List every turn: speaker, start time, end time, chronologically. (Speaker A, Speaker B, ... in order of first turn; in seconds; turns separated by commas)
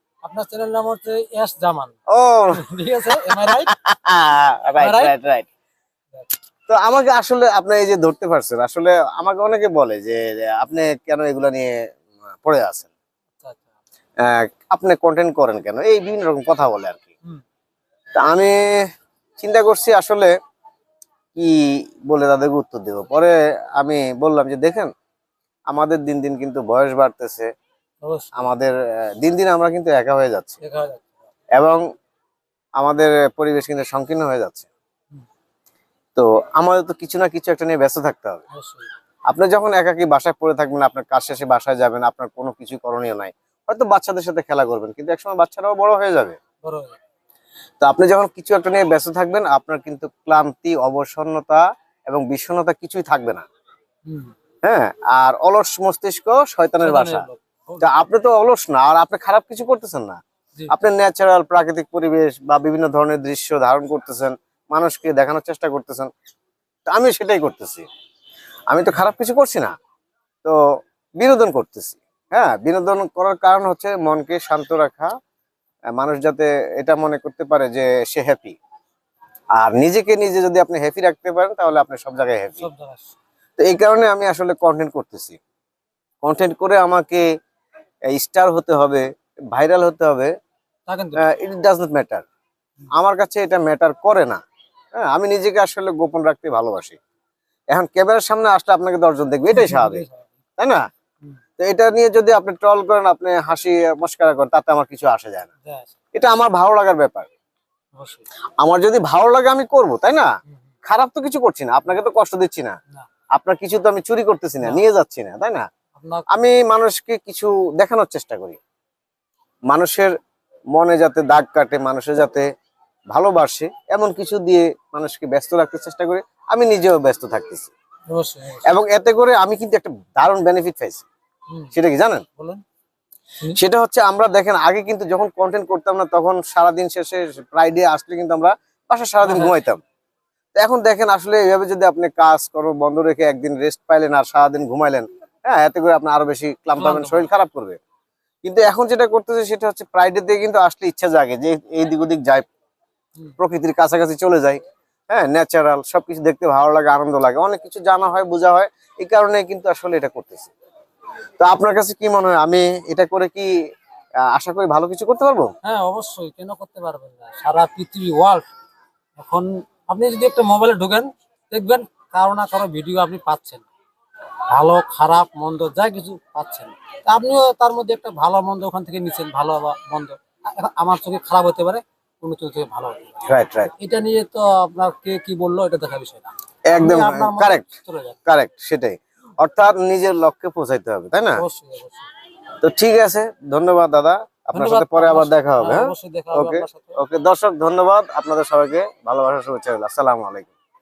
Speaker A: 0.2-2.0, Speaker B: 2.1-5.5, Speaker A: 2.5-3.7, Speaker A: 4.8-5.1, Speaker B: 6.7-11.7, Speaker B: 12.4-12.9, Speaker A: 13.4-13.7, Speaker B: 14.2-17.1, Speaker B: 18.2-18.7, Speaker B: 19.4-20.3, Speaker B: 21.3-24.9, Speaker B: 25.7-27.5, Speaker A: 28.0-28.5, Speaker B: 28.4-30.6, Speaker A: 30.6-31.1, Speaker B: 31.6-31.8, Speaker B: 32.8-34.7, Speaker B: 36.1-38.4, Speaker A: 38.5-38.9, Speaker B: 39.3-46.4, Speaker A: 46.6-47.0, Speaker B: 47.8-53.5, Speaker A: 54.1-54.3, Speaker B: 54.6-57.2, Speaker A: 56.8-58.0, Speaker B: 57.8-60.2, Speaker B: 60.7-66.1, Speaker B: 66.9-67.8, Speaker B: 68.7-69.7, Speaker B: 71.2-75.1, Speaker B: 76.0-78.6, Speaker B: 79.6-82.7, Speaker A: 82.6-83.2, Speaker B: 83.6-85.4, Speaker B: 86.2-87.2, Speaker B: 88.1-90.3, Speaker A: 90.9-91.2, Speaker B: 91.2-92.2, Speaker B: 92.9-94.4, Speaker B: 94.9-97.0, Speaker B: 97.7-100.0, Speaker A: 99.5-100.3, Speaker B: 100.6-100.8, Speaker B: 101.6-105.5, Speaker A: 105.6-105.9, Speaker B: 106.1-107.3, Speaker A: 107.9-108.2, Speaker B: 108.6-110.3, Speaker B: 110.8-112.8, Speaker B: 113.3-115.6, Speaker A: 116.0-116.3, Speaker B: 116.3-118.6, Speaker B: 119.7-120.1, Speaker B: 120.7-122.5, Speaker B: 123.1-127.7, Speaker A: 128.1-128.8, Speaker B: 128.7-131.1, Speaker A: 131.5-131.7, Speaker B: 131.7-132.2, Speaker A: 132.3-132.6, Speaker B: 133.6-139.8, Speaker A: 139.2-139.6, Speaker B: 140.6-147.8, Speaker A: 146.7-147.3, Speaker B: 148.4-152.4, Speaker B: 153.4-160.5, Speaker B: 161.4-163.5, Speaker B: 164.3-165.5, Speaker A: 165.6-168.5, Speaker A: 169.2-173.7, Speaker A: 174.5-183.2, Speaker B: 183.3-183.7, Speaker A: 183.7-188.2, Speaker B: 186.7-187.7, Speaker B: 188.3-191.4, Speaker A: 191.3-192.1, Speaker B: 192.6-200.5, Speaker A: 194.5-197.0